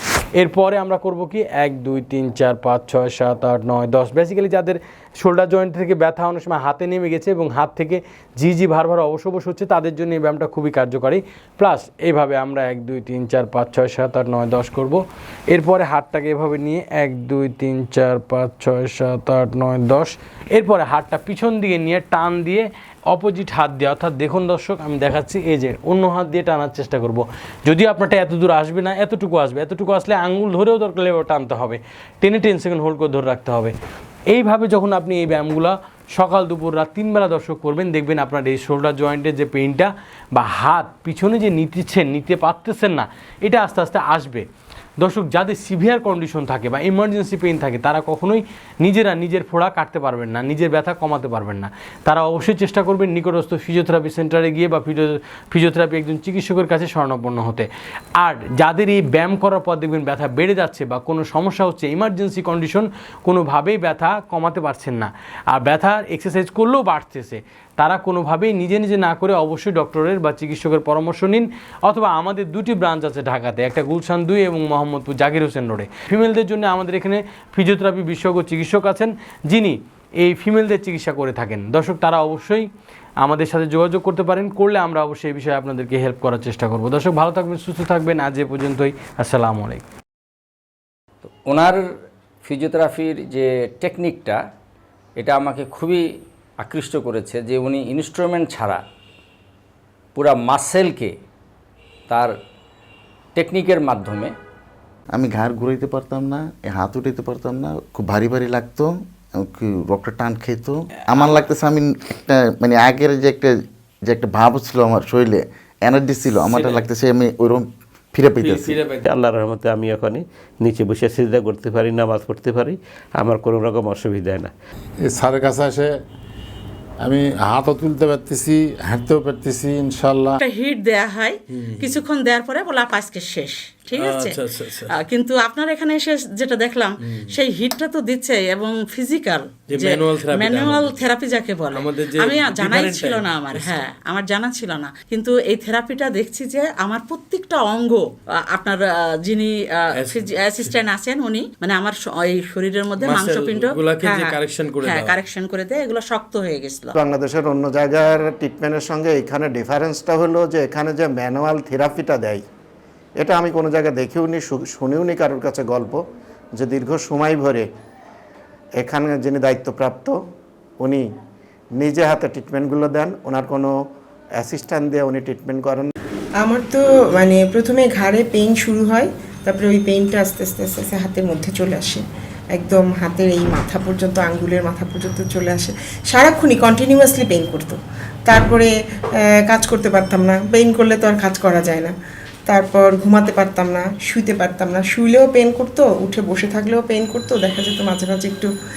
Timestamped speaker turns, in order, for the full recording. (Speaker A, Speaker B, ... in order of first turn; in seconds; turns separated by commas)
Speaker A: 0.3-33.7, Speaker A: 34.3-44.5, Speaker A: 45.0-82.7, Speaker A: 83.2-89.8, Speaker B: 91.2-91.9, Speaker B: 92.4-94.4, Speaker B: 95.2-98.8, Speaker B: 100.1-101.1, Speaker B: 102.1-102.3, Speaker B: 103.3-104.3, Speaker C: 105.1-118.8, Speaker D: 118.4-124.5, Speaker E: 125.0-126.0, Speaker E: 127.0-130.4, Speaker F: 130.4-156.9, Speaker A: 131.7-131.9, Speaker A: 134.0-134.9, Speaker A: 139.7-140.9, Speaker A: 141.7-143.8, Speaker A: 153.0-155.1, Speaker G: 157.0-162.4, Speaker G: 163.2-166.0, Speaker G: 166.6-167.7, Speaker G: 168.8-170.1, Speaker G: 171.8-173.7, Speaker G: 174.4-175.9, Speaker H: 176.4-182.0, Speaker H: 182.5-188.7, Speaker H: 189.4-191.9, Speaker H: 192.5-198.5